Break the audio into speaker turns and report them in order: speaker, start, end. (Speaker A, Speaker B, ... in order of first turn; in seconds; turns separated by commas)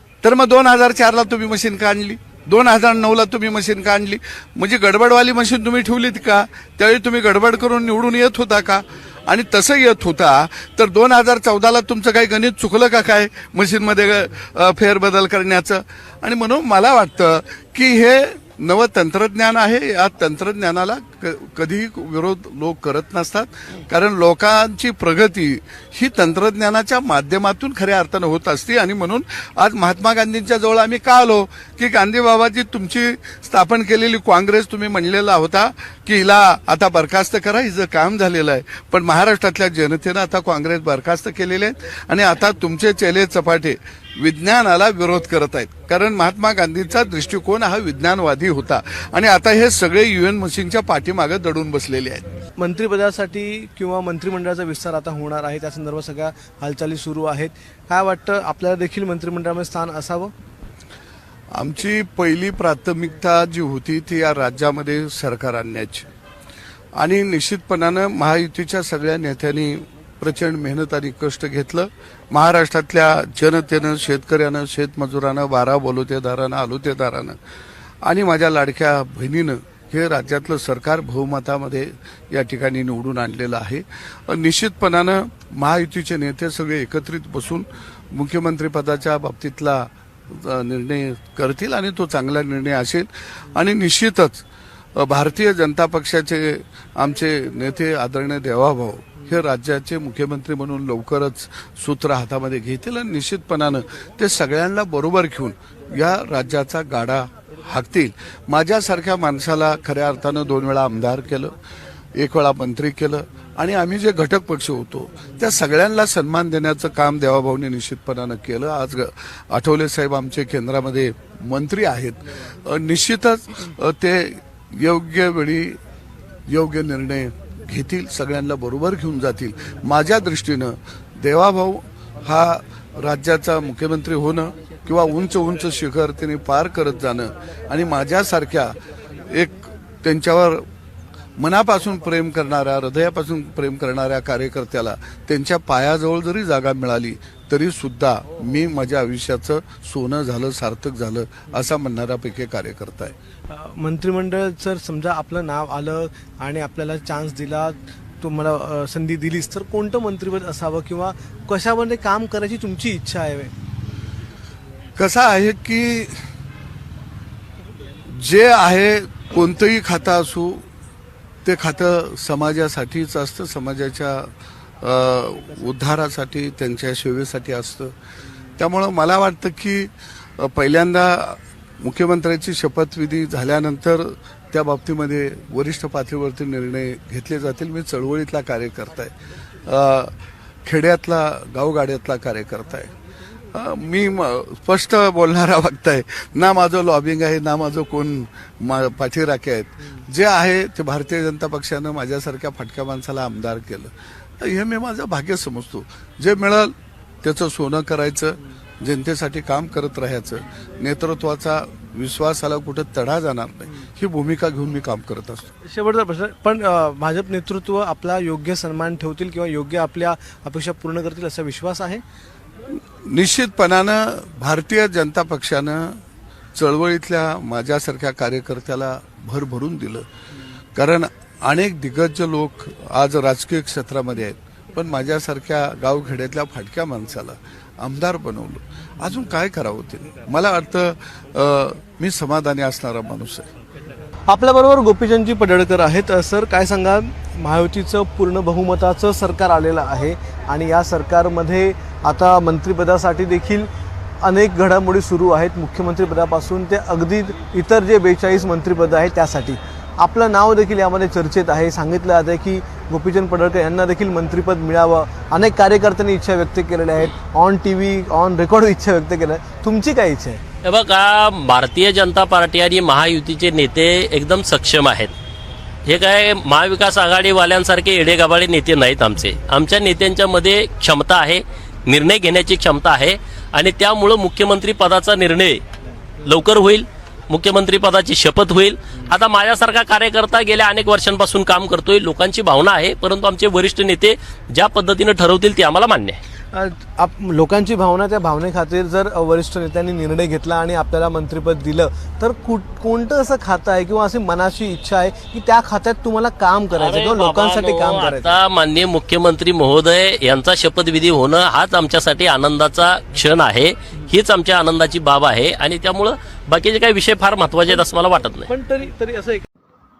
Speaker A: 0.2-52.4, Speaker B: 52.6-60.3, Speaker A: 61.5-66.1, Speaker A: 67.0-77.4, Speaker A: 78.0-94.4, Speaker A: 95.0-111.5, Speaker A: 112.1-125.8, Speaker A: 126.5-140.7, Speaker A: 141.4-153.1, Speaker B: 153.5-163.5, Speaker A: 164.9-166.2, Speaker A: 168.1-170.7, Speaker A: 171.4-177.9, Speaker A: 178.6-192.9, Speaker A: 193.5-215.5, Speaker B: 215.6-222.0, Speaker A: 222.7-226.0, Speaker A: 226.5-230.1, Speaker A: 230.8-243.5, Speaker B: 244.3-253.7, Speaker B: 254.2-270.4, Speaker C: 270.6-275.1, Speaker C: 275.9-285.6, Speaker C: 286.2-296.2, Speaker B: 296.5-308.4, Speaker C: 306.7-318.5, Speaker B: 318.4-319.4